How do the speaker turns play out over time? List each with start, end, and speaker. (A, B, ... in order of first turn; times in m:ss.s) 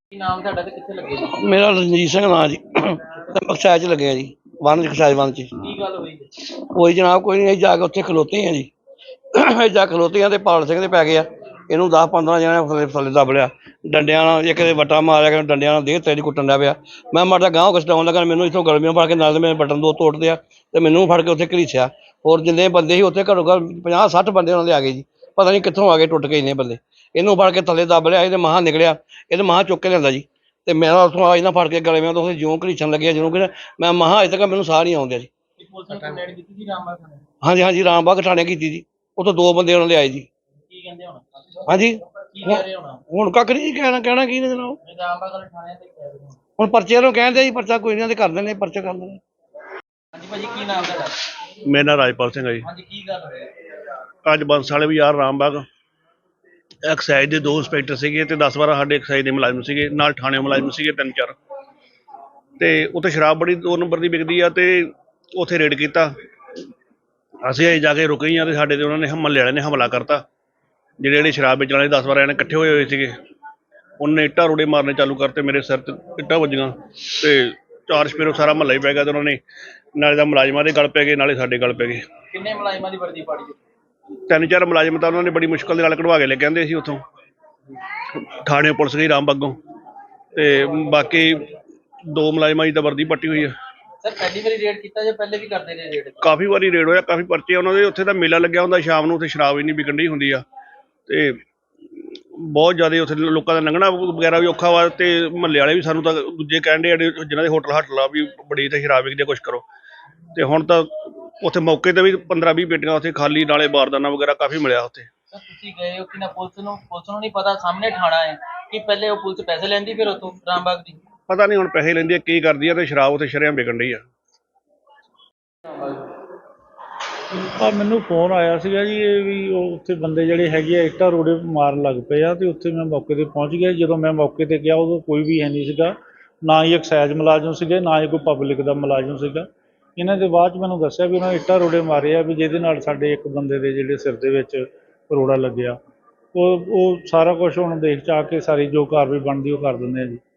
0:00.1-0:01.5 A
0:01.4-0:05.5 B
0:05.6-0:06.3 A
0:06.6-0:08.7 B
0:09.3-0:35.3 B
0:35.6-0:37.2 A
0:37.4-0:40.3 B
0:40.6-0:43.0 A
0:41.7-0:44.8 B
0:44.8-0:46.4 A
0:46.6-0:49.2 B
0:50.1-0:51.2 A
0:51.6-0:52.7 C
0:52.6-0:53.5 A
0:54.2-0:55.7 C
0:56.8-1:01.4 C
1:02.6-1:06.1 C
1:07.4-1:10.2 C
1:11.0-1:13.2 C
1:14.0-1:19.4 C
1:20.0-1:22.1 C
1:22.3-1:23.6 A
1:24.3-1:27.0 C
1:28.1-1:29.6 C
1:30.4-1:31.5 C
1:32.1-1:33.6 C
1:34.0-1:36.2 A
1:36.2-1:40.4 C
1:41.1-1:41.4 C
1:42.4-1:49.7 C
1:50.4-1:55.1 C
1:55.3-2:01.0 A
2:01.3-2:04.0 C
2:05.7-2:06.1 A
2:07.6-2:15.9 D
2:16.4-2:25.8 D
2:26.3-2:30.2 D